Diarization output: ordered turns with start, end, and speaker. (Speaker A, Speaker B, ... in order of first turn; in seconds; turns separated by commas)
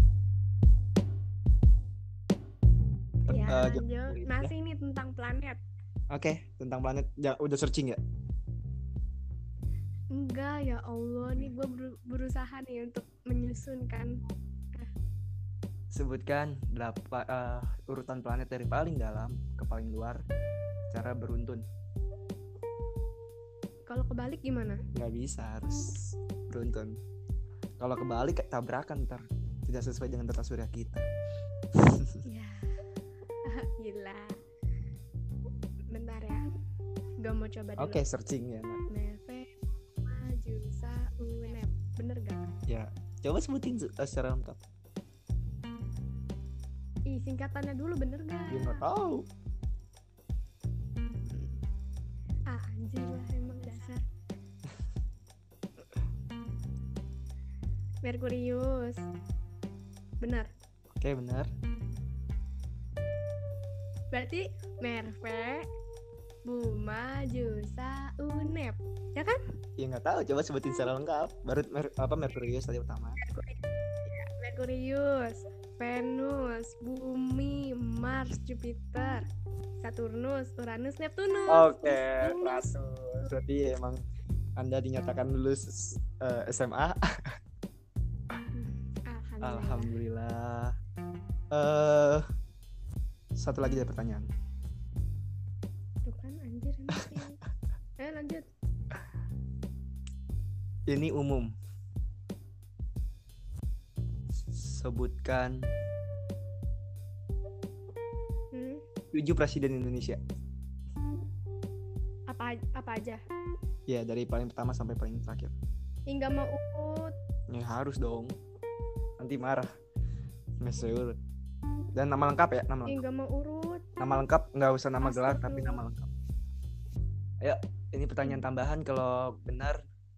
Speaker A: 3.3-4.5, Speaker B: 3.3-5.6, Speaker A: 6.1-8.0, Speaker B: 10.1-14.1, Speaker A: 15.9-20.2, Speaker A: 20.9-21.6, Speaker B: 23.9-24.8, Speaker A: 24.9-27.0, Speaker A: 27.8-31.1, Speaker A: 31.7-32.2, Speaker B: 32.2-32.8, Speaker B: 33.4-34.4, Speaker B: 35.9-36.4, Speaker B: 37.2-38.0, Speaker A: 37.8-38.8, Speaker B: 38.9-42.4, Speaker A: 42.7-44.6, Speaker B: 47.1-48.8, Speaker A: 48.5-49.2, Speaker B: 51.3-51.6, Speaker B: 52.5-54.0, Speaker B: 58.0-59.0, Speaker B: 60.2-60.5, Speaker A: 61.0-61.5, Speaker B: 64.1-65.7, Speaker B: 66.5-69.4, Speaker A: 69.8-73.2, Speaker B: 73.2-79.2, Speaker B: 79.8-83.3, Speaker A: 81.5-84.0, Speaker A: 84.6-87.0, Speaker B: 88.5-89.9, Speaker A: 89.4-90.7, Speaker A: 91.5-92.2, Speaker A: 93.3-94.3, Speaker B: 96.0-97.4, Speaker B: 98.0-98.4, Speaker A: 100.9-101.5, Speaker A: 104.5-105.7, Speaker B: 108.5-108.8, Speaker A: 109.1-110.2, Speaker B: 112.3-113.2, Speaker A: 113.9-115.5, Speaker B: 116.1-117.1, Speaker A: 117.5-118.3, Speaker A: 119.2-119.7, Speaker A: 120.6-121.2, Speaker A: 121.9-123.0, Speaker B: 122.8-124.2, Speaker A: 124.0-126.1, Speaker B: 125.0-125.8, Speaker A: 127.4-129.8